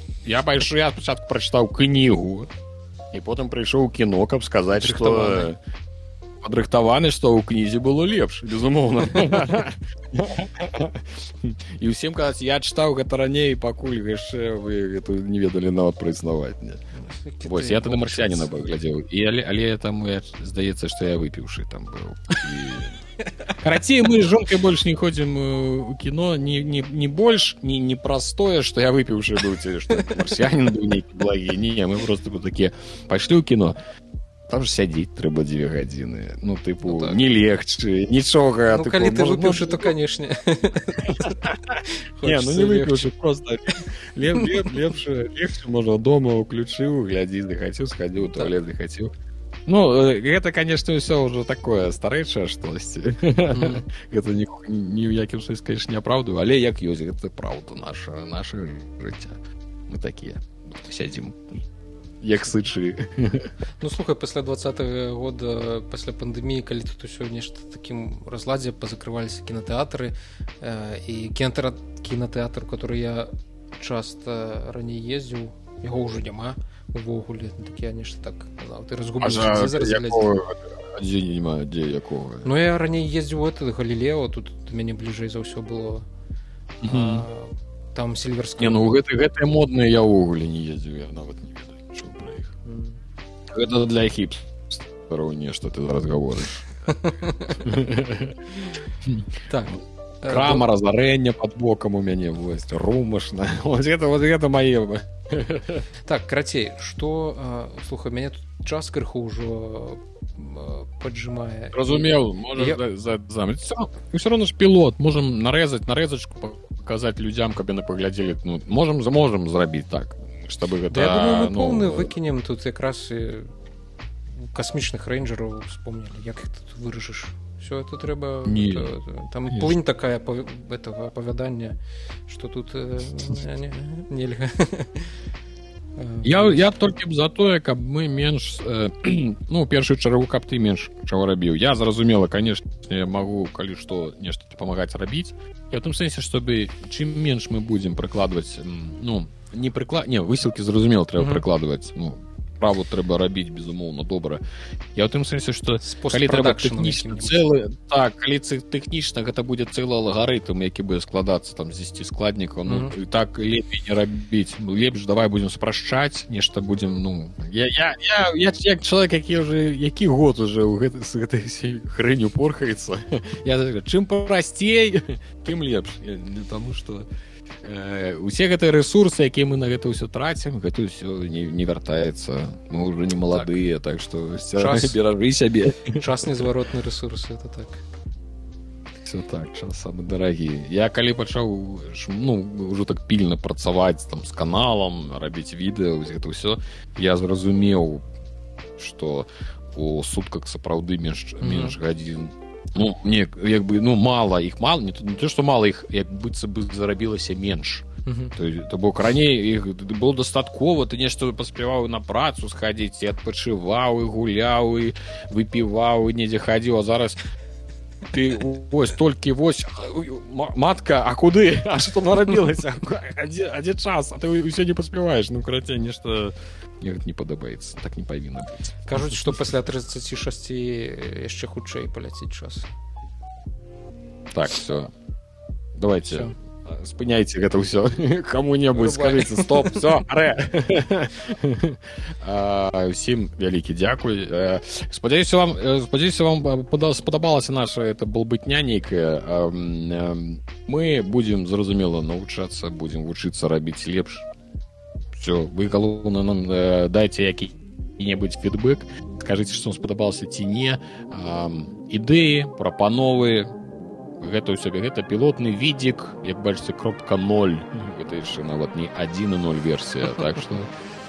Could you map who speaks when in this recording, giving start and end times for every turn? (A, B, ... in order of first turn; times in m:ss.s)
0:00.2-0:02.5 A
0:03.1-0:05.6 A
0:04.8-0:05.5 B
0:06.4-0:16.8 A
0:16.9-0:18.7 B
0:17.4-0:23.0 A
0:23.6-0:33.8 A
0:29.9-0:30.3 B
0:34.5-0:39.9 A
0:36.8-0:37.2 B
0:38.7-0:43.1 B
0:41.1-0:49.1 A
0:49.7-1:01.6 A
0:53.5-0:53.8 B
1:02.2-1:03.5 A
1:03.8-1:20.4 B
1:19.2-1:22.5 A
1:22.4-1:26.0 B
1:26.8-1:27.2 A
1:26.8-1:28.9 B
1:28.6-1:32.6 A
1:32.6-1:33.0 B
1:33.5-1:36.6 A
1:36.8-1:37.7 B
1:37.6-1:38.4 A
1:39.5-1:40.7 B
1:40.2-1:45.8 A
1:46.0-1:52.8 B
1:51.7-2:02.1 A
2:00.9-2:03.5 B
2:04.4-2:15.2 B
2:08.5-2:08.9 A
2:09.5-2:09.8 A
2:16.0-2:16.7 B
2:16.2-2:34.4 A
2:31.2-2:31.4 B
2:35.0-2:57.1 A
2:35.8-2:37.4 B
2:42.7-2:42.9 B
2:57.6-3:06.3 A
3:03.3-3:03.6 B
3:04.6-3:05.0 B
3:05.9-3:07.8 B
3:09.0-3:18.0 A
3:18.8-3:37.2 A
3:21.4-3:21.8 B
3:28.1-3:28.4 B
3:38.1-3:48.8 A
3:48.9-3:52.7 B
3:54.3-3:54.9 A
3:55.8-4:14.3 A
3:56.0-3:56.3 B
3:58.7-3:59.9 B
4:15.2-4:23.5 A
4:24.2-4:30.7 A